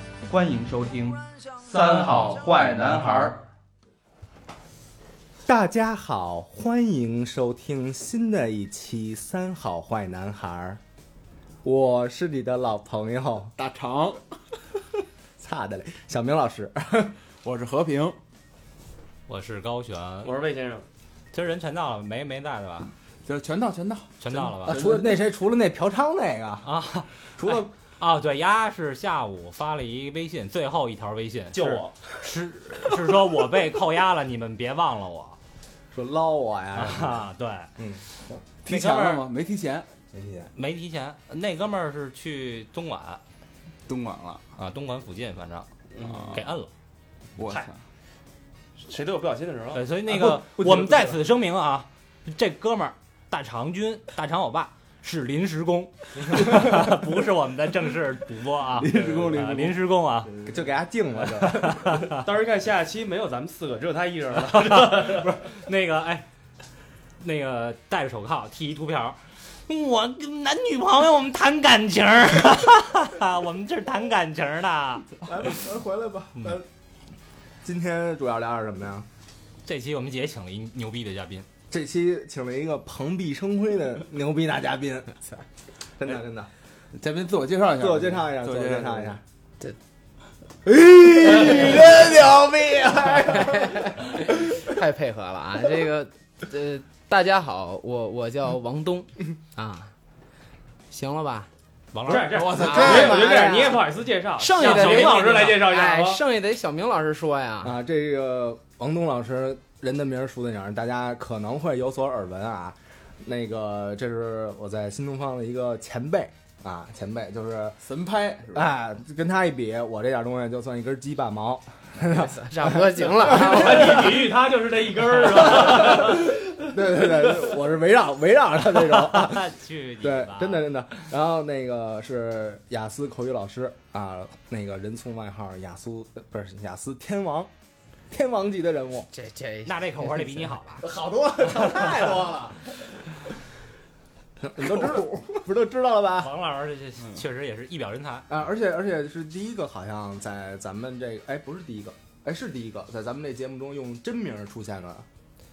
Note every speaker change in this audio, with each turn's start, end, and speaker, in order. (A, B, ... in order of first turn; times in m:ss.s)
0:00.3-0:03.4 A
0:01.8-0:02.4 B
0:05.4-0:10.8 C
0:11.6-0:13.5 C
0:13.6-0:14.4 B
0:15.4-0:17.2 C
0:17.4-0:18.2 B
0:19.3-0:20.3 D
0:20.2-0:20.9 E
0:21.3-0:22.9 D
0:23.3-0:25.1 B
0:24.2-0:25.0 D
0:24.6-0:26.8 C
0:26.6-0:35.4 D
0:27.4-0:27.7 C
0:31.5-0:32.0 E
0:35.9-0:38.4 C
0:36.8-0:37.7 D
0:38.6-0:39.9 B
0:38.7-0:39.3 D
0:40.1-0:40.5 C
0:40.6-0:43.2 D
0:43.9-0:44.5 B
0:44.6-0:45.7 D
0:45.9-0:46.4 E
0:46.0-0:46.5 B
0:46.3-0:46.7 D
0:47.4-0:47.8 B
0:48.8-0:49.8 E
0:49.7-1:00.3 D
0:58.8-1:00.6 B
1:00.5-1:01.9 C
1:01.4-1:02.2 D
1:02.1-1:05.5 E
1:04.6-1:06.3 D
1:07.2-1:15.3 D
1:15.2-1:16.7 C
1:17.6-1:19.1 C
1:19.7-1:21.5 D
1:21.7-1:25.4 C
1:26.0-1:26.5 C
1:27.0-1:29.2 B
1:27.8-1:29.2 C
1:30.7-1:34.0 C
1:31.4-1:32.4 B
1:33.3-1:39.9 F
1:40.9-1:41.5 F
1:41.9-1:42.9 D
1:42.1-1:46.2 E
1:42.4-1:43.0 B
1:42.5-1:43.9 C
1:42.6-1:43.5 F
1:44.4-1:47.8 F
1:44.5-1:45.6 D
1:47.6-1:57.8 C
1:57.8-1:58.7 B
1:58.5-2:03.1 C
2:02.0-2:04.1 F
2:03.3-2:06.4 E
2:05.6-2:17.5 C
2:08.7-2:10.7 D
2:18.1-2:19.1 C
2:19.1-2:20.3 F
2:19.7-2:20.9 D
2:20.8-2:22.7 C
2:21.5-2:22.0 D
2:24.4-2:26.4 C
2:24.8-2:25.1 B
2:26.2-2:28.3 D
2:28.3-2:35.1 C